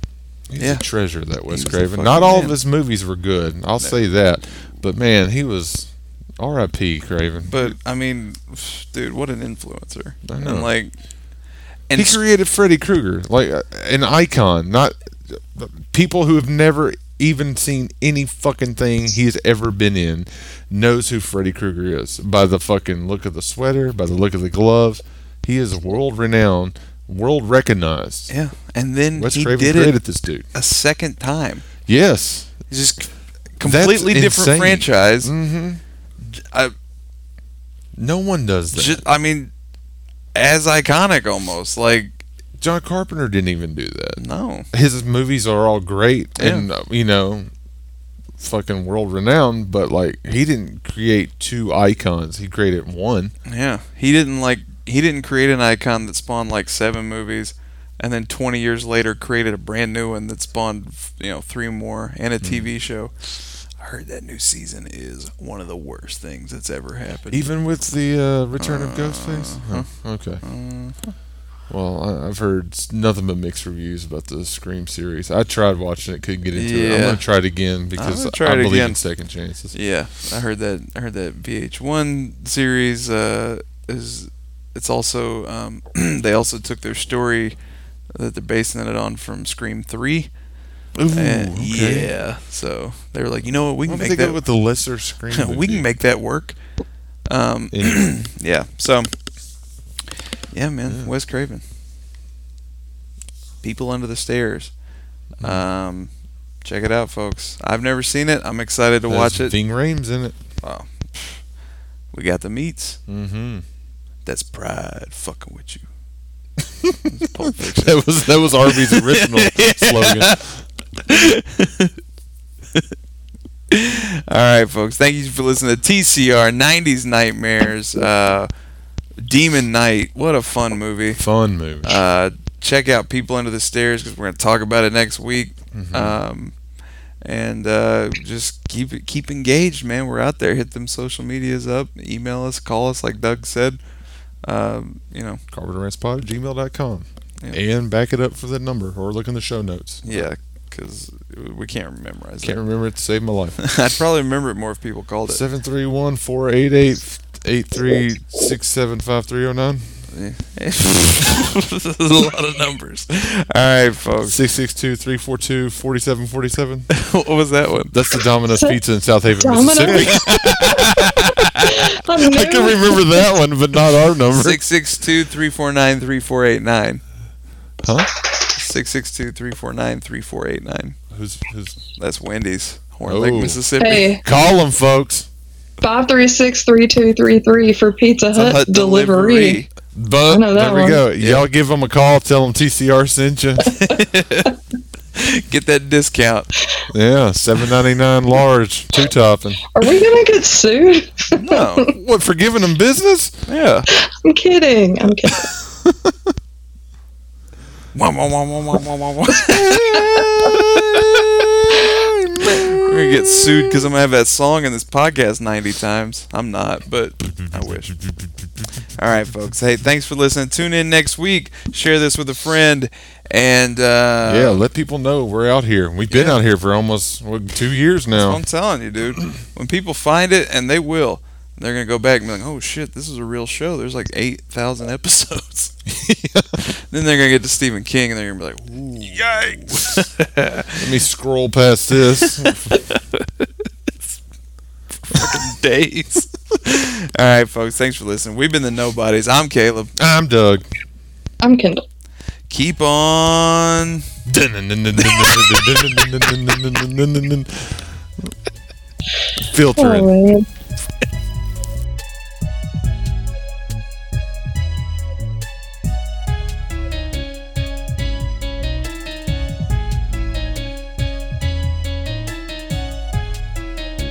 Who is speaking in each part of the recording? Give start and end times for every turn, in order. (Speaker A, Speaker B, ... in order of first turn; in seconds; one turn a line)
Speaker A: 0.5-7.7
Speaker B: 0.6-0.8
Speaker B: 1.5-2.6
Speaker B: 7.5-10.9
Speaker A: 10.2-10.7
Speaker B: 11.9-12.2
Speaker A: 11.9-28.3
Speaker B: 28.3-30.0
Speaker A: 29.1-30.5
Speaker B: 30.5-31.7
Speaker A: 31.9-32.7
Speaker B: 32.7-35.3
Speaker A: 33.6-35.8
Speaker B: 36.3-36.7
Speaker A: 38.0-39.0
Speaker B: 38.7-39.5
Speaker B: 40.3-42.2
Speaker A: 42.6-47.5
Speaker B: 44.2-44.7
Speaker B: 46.4-46.7
Speaker A: 48.4-53.3
Speaker B: 53.5-67.5
Speaker A: 62.4-62.7
Speaker A: 67.3-70.4
Speaker B: 68.6-71.1
Speaker A: 71.7-79.7
Speaker B: 76.5-77.2
Speaker B: 77.9-79.0
Speaker B: 79.7-87.5
Speaker B: 88.1-90.3
Speaker A: 90.9-92.1
Speaker B: 91.1-94.4
Speaker A: 93.8-95.9
Speaker B: 95.3-96.6
Speaker B: 97.3-99.1
Speaker A: 97.7-98.1
Speaker B: 100.5-101.6
Speaker B: 103.6-104.7
Speaker B: 105.4-106.1
Speaker B: 106.6-109.5
Speaker A: 109.1-110.3
Speaker B: 110.6-111.4
Speaker B: 112.1-113.0
Speaker A: 113.1-113.6
Speaker B: 114.2-115.8
Speaker A: 116.6-117.0
Speaker B: 117.1-120.4
Speaker A: 117.6-120.6
Speaker B: 121.0-121.9
Speaker B: 123.7-128.5
Speaker B: 129.2-131.2
Speaker A: 131.1-132.0
Speaker B: 131.8-136.5
Speaker A: 135.7-136.2
Speaker B: 137.2-143.8
Speaker B: 144.4-145.4
Speaker A: 145.5-150.3
Speaker B: 150.0-152.6
Speaker A: 152.4-153.6
Speaker B: 153.6-155.4
Speaker A: 155.3-160.1
Speaker B: 160.1-164.4
Speaker A: 164.2-166.9
Speaker B: 166.9-167.9
Speaker A: 167.9-174.6
Speaker C: 168.5-170.9
Speaker B: 169.9-170.2
Speaker C: 171.6-173.2
Speaker B: 174.3-177.0
Speaker A: 177.8-178.1
Speaker B: 178.5-181.0
Speaker A: 181.1-181.8
Speaker B: 182.0-184.2
Speaker A: 183.0-185.3
Speaker C: 183.8-184.2
Speaker C: 185.8-189.6
Speaker B: 188.3-189.7
Speaker A: 189.9-193.7
Speaker C: 190.3-191.0
Speaker B: 191.2-191.4
Speaker B: 193.6-194.5
Speaker B: 195.1-196.5
Speaker A: 196.9-199.6
Speaker C: 199.7-201.9
Speaker B: 201.3-201.9
Speaker A: 201.8-203.4
Speaker B: 203.5-203.9
Speaker C: 204.2-205.5
Speaker A: 205.8-206.2
Speaker B: 207.9-211.4
Speaker C: 209.9-210.2
Speaker A: 210.5-213.9
Speaker B: 212.8-218.0
Speaker B: 219.0-224.6
Speaker A: 224.2-228.4
Speaker B: 226.1-226.4
Speaker B: 228.1-235.7
Speaker A: 235.9-236.6
Speaker B: 236.6-240.8
Speaker A: 239.7-240.0
Speaker A: 240.8-242.7
Speaker B: 242.2-243.5
Speaker B: 245.1-249.9
Speaker A: 250.0-250.6
Speaker C: 251.4-251.8
Speaker B: 252.5-254.0
Speaker A: 254.2-258.3
Speaker A: 259.4-260.1
Speaker C: 259.8-260.4